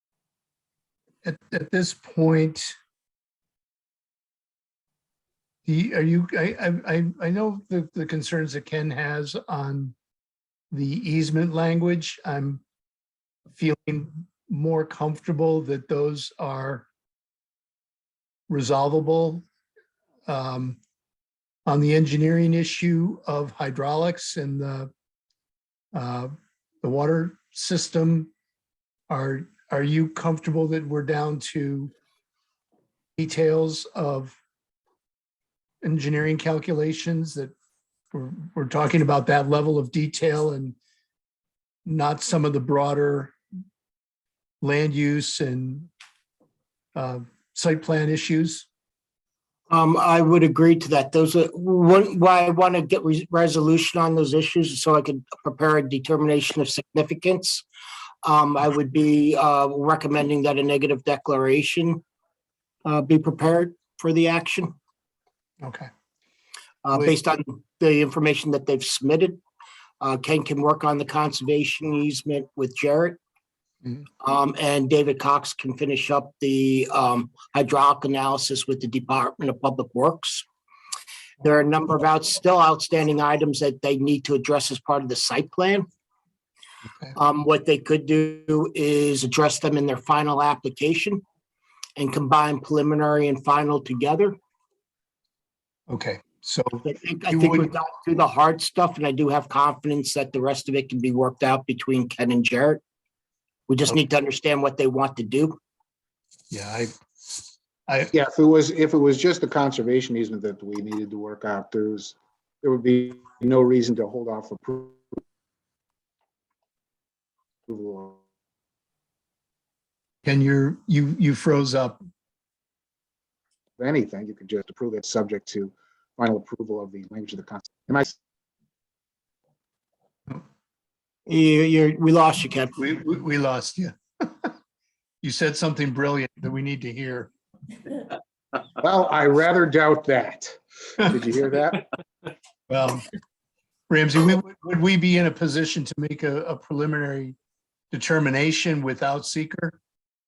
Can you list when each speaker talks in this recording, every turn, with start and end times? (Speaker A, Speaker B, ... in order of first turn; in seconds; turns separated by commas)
Speaker A: 1.2-2.8, Speaker A: 5.7-9.9, Speaker A: 10.7-12.6, Speaker A: 13.5-16.9, Speaker A: 18.5-19.4, Speaker A: 20.3-20.8, Speaker A: 21.7-24.9, Speaker A: 25.9-28.3, Speaker A: 29.1-31.9, Speaker A: 33.2-34.4, Speaker A: 35.8-37.5, Speaker A: 38.1-40.8, Speaker A: 41.9-43.4, Speaker A: 44.6-45.9, Speaker A: 47.0-48.7, Speaker B: 49.7-57.6, Speaker B: 58.2-62.0, Speaker B: 62.9-64.7, Speaker A: 65.6-65.9, Speaker B: 66.8-69.4, Speaker B: 70.0-73.2, Speaker B: 74.2-80.5, Speaker B: 81.4-85.9, Speaker B: 87.2-91.2, Speaker B: 92.0-94.4, Speaker A: 95.9-97.7, Speaker B: 96.8-102.8, Speaker B: 103.7-105.6, Speaker A: 106.5-106.9, Speaker A: 107.9-108.1, Speaker C: 108.1-115.0, Speaker C: 117.7-118.2, Speaker A: 120.2-122.0, Speaker C: 123.8-128.1, Speaker B: 131.3-132.8, Speaker A: 132.8-134.5, Speaker A: 135.2-137.3, Speaker C: 138.8-140.6, Speaker C: 141.1-141.8, Speaker A: 142.7-143.0, Speaker A: 143.9-147.4, Speaker A: 147.9-149.8